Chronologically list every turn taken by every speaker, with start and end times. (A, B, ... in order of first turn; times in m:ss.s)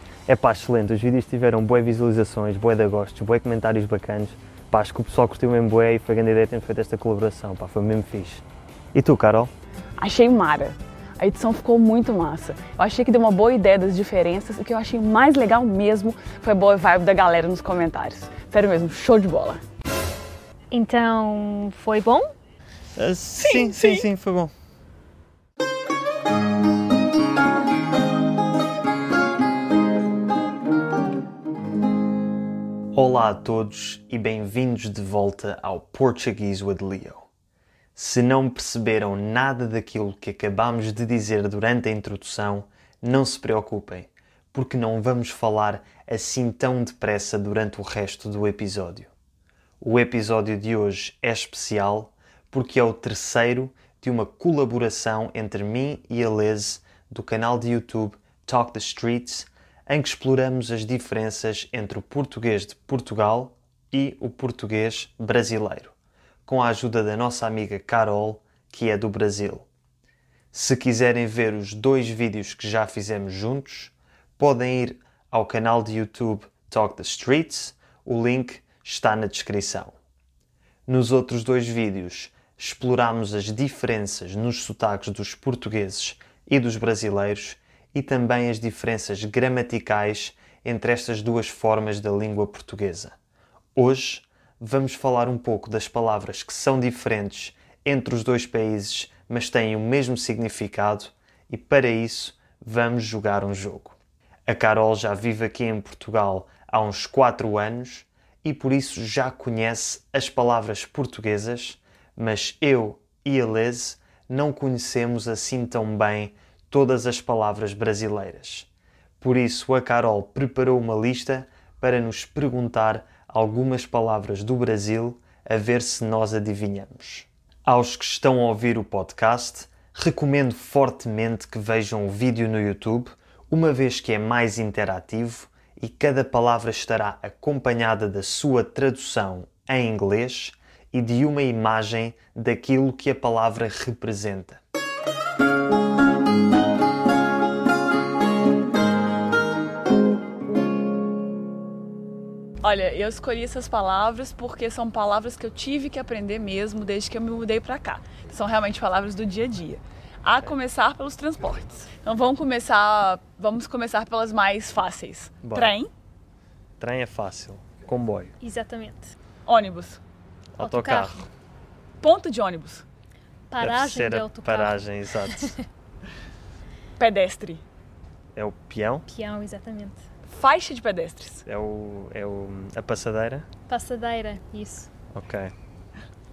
0:00.3-0:09.5 A
0:10.0-0:19.6 B
0:20.7-0:22.3 C
0:23.0-0:24.5 A
0:23.4-0:24.0 B
0:32.9-0:37.3 A
0:37.9-0:49.1 A
0:49.8-1:05.9 A
1:06.4-1:09.7 A
1:10.5-1:20.0 A
1:20.9-1:33.1 A
1:33.8-1:58.7 A
1:59.2-2:24.6 A
2:32.6-2:45.9 B
2:45.4-2:45.8 A
2:46.8-2:48.3 A
2:48.4-2:49.1 C
2:49.4-2:50.0 B
2:50.6-2:51.3 A
2:50.6-2:51.2 C
2:52.0-2:52.8 B
2:53.5-2:55.6 C
2:53.6-2:55.5 A
2:57.0-2:57.6 B
2:58.3-2:59.0 A
2:59.1-3:00.0 C
3:00.3-3:01.4 B
3:01.4-3:03.5 A
3:03.7-3:04.9 C
3:05.1-3:05.5 A